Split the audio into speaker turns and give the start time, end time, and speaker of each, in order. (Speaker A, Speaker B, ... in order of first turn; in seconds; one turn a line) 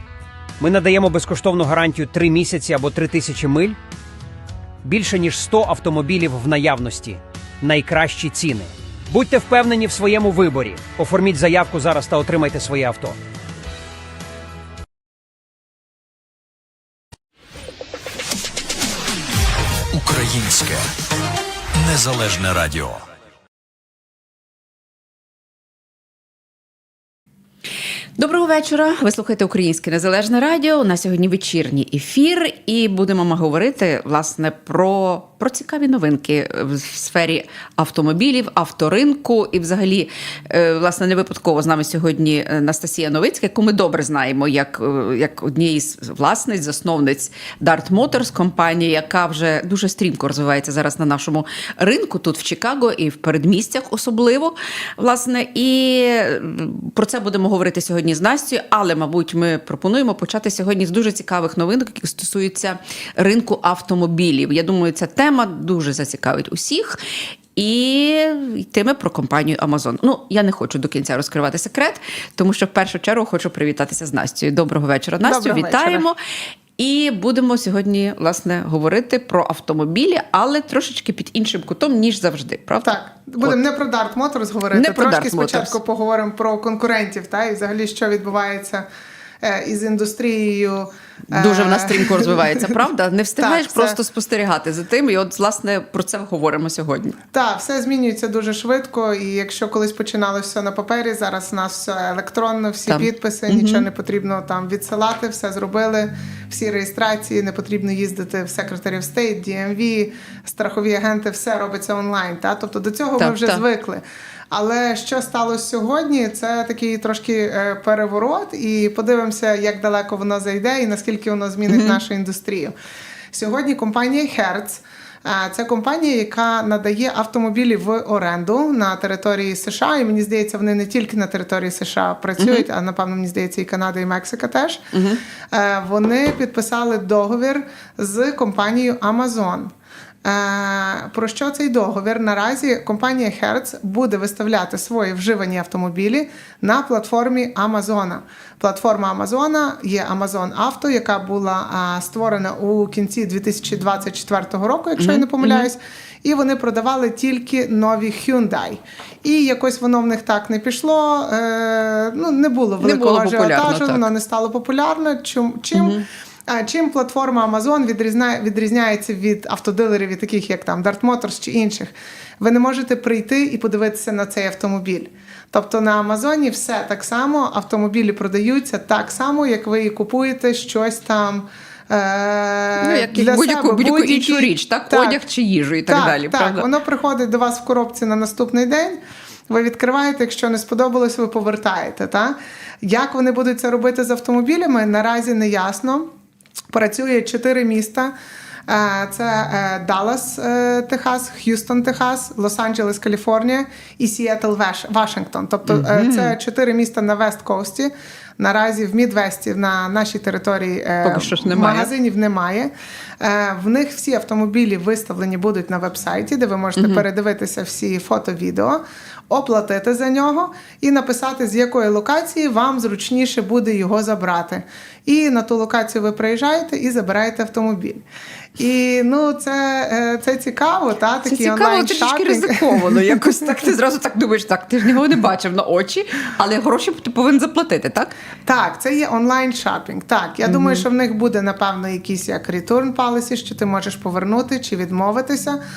Speaker A: 0.6-3.8
Speaker A: 4.8-13.2
Speaker B: 19.9-20.9
Speaker B: 21.8-23.0
Speaker C: 28.2-67.0
Speaker C: 67.5-76.2
Speaker D: 75.2-76.0
Speaker C: 76.8-83.6
Speaker D: 82.8-88.8
Speaker C: 84.7-85.8
Speaker D: 89.4-92.6
Speaker C: 91.3-97.2
Speaker D: 93.4-94.0
Speaker D: 97.3-122.7
Speaker C: 102.9-103.8
Speaker C: 113.2-113.6
Speaker C: 121.7-122.0
Speaker D: 123.3-134.9
Speaker C: 132.4-132.7
Speaker C: 134.9-135.2
Speaker D: 135.5-139.7
Speaker D: 140.2-185.2
Speaker C: 155.0-155.7
Speaker C: 162.8-164.1
Speaker C: 165.7-166.1
Speaker C: 182.8-186.7
Speaker D: 185.9-196.1
Speaker D: 196.7-198.1
Speaker D: 198.7-228.0
Speaker C: 205.7-206.3
Speaker C: 211.0-211.9
Speaker C: 216.8-217.0
Speaker D: 228.6-233.2
Speaker C: 231.2-238.1
Speaker D: 238.4-245.6
Speaker C: 240.4-240.8